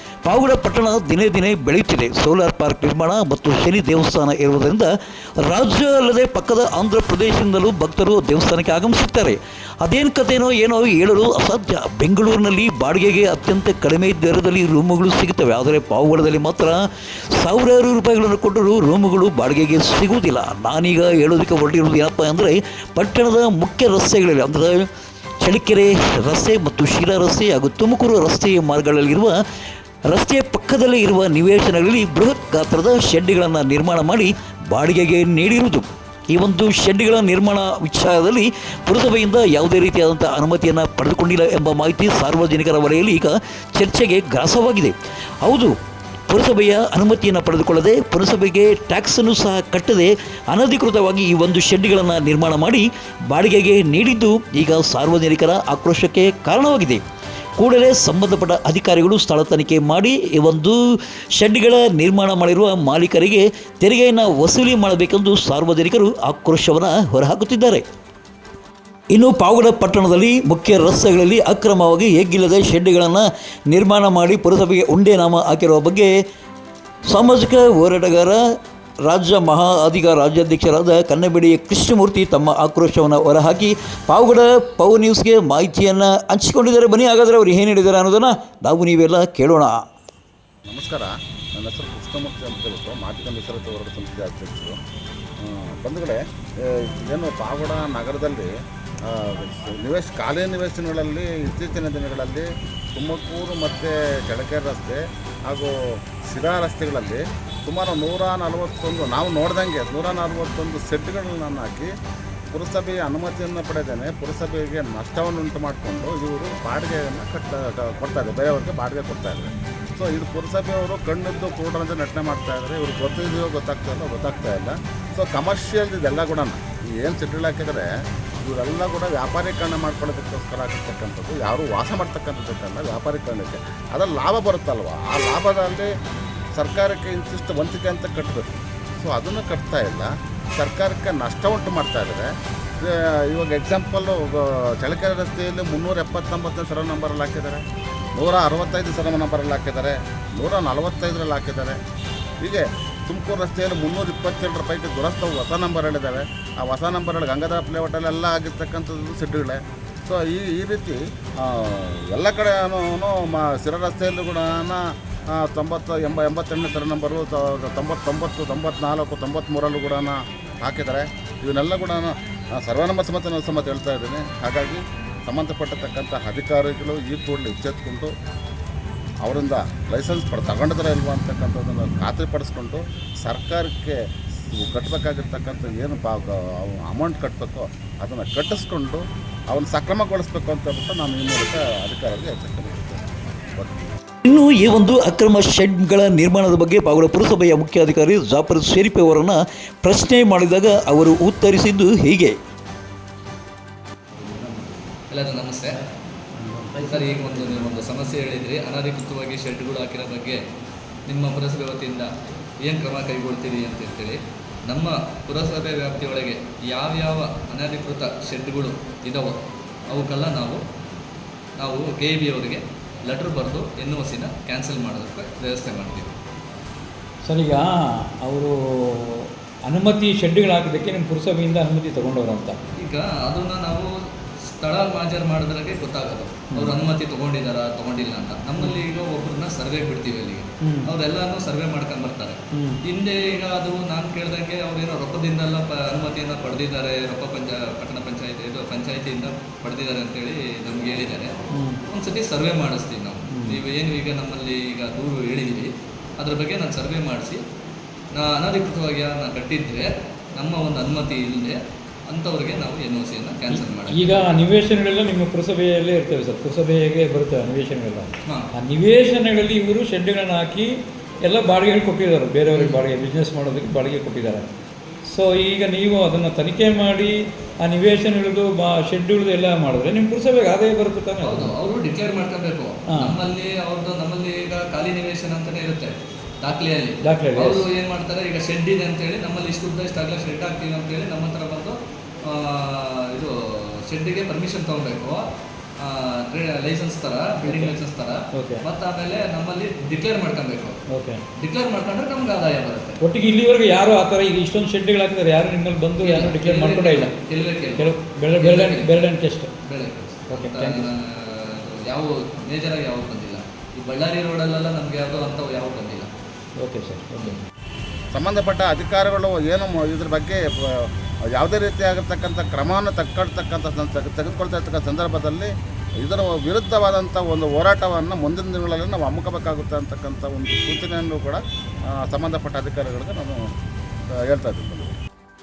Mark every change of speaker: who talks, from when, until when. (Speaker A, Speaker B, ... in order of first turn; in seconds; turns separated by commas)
Speaker A: 0.2-24.9, Speaker A: 25.4-29.4, Speaker A: 30.1-45.7, Speaker A: 46.3-57.0, Speaker A: 57.6-60.8, Speaker A: 61.4-67.8, Speaker A: 69.1-76.1, Speaker A: 77.1-78.4, Speaker A: 79.1-89.8, Speaker B: 90.7-94.8, Speaker B: 95.4-98.5, Speaker B: 99.0-105.7, Speaker B: 106.3-111.9, Speaker B: 112.5-127.9, Speaker B: 128.4-135.9, Speaker B: 136.6-142.3, Speaker B: 142.8-147.6, Speaker B: 148.2-151.8, Speaker B: 152.4-178.1, Speaker B: 179.2-184.0, Speaker B: 184.5-193.9, Speaker A: 194.2-202.4, Speaker C: 204.3-204.6, Speaker C: 205.1-205.8, Speaker D: 206.5-207.0, Speaker C: 206.8-210.4, Speaker C: 211.1-212.1, Speaker C: 212.6-220.6, Speaker C: 221.6-226.1, Speaker D: 227.2-232.6, Speaker C: 232.8-233.9, Speaker C: 234.6-251.3, Speaker D: 236.5-236.8, Speaker D: 240.6-240.9, Speaker D: 242.5-242.8, Speaker D: 251.5-251.8, Speaker C: 251.9-257.4, Speaker D: 253.3-253.6, Speaker C: 258.1-261.6, Speaker C: 262.1-264.4, Speaker D: 263.5-274.5, Speaker D: 275.1-281.5, Speaker C: 281.2-291.8, Speaker D: 282.9-283.2, Speaker D: 287.0-287.7, Speaker C: 292.3-295.2, Speaker C: 295.8-300.8, Speaker D: 297.4-297.7, Speaker D: 298.3-298.6, Speaker D: 300.9-301.2, Speaker C: 301.4-303.0, Speaker D: 303.0-307.1, Speaker C: 306.0-309.0, Speaker D: 307.8-309.5, Speaker C: 309.6-316.1, Speaker D: 310.3-310.9, Speaker D: 316.6-317.4, Speaker B: 318.1-333.4, Speaker B: 334.2-335.0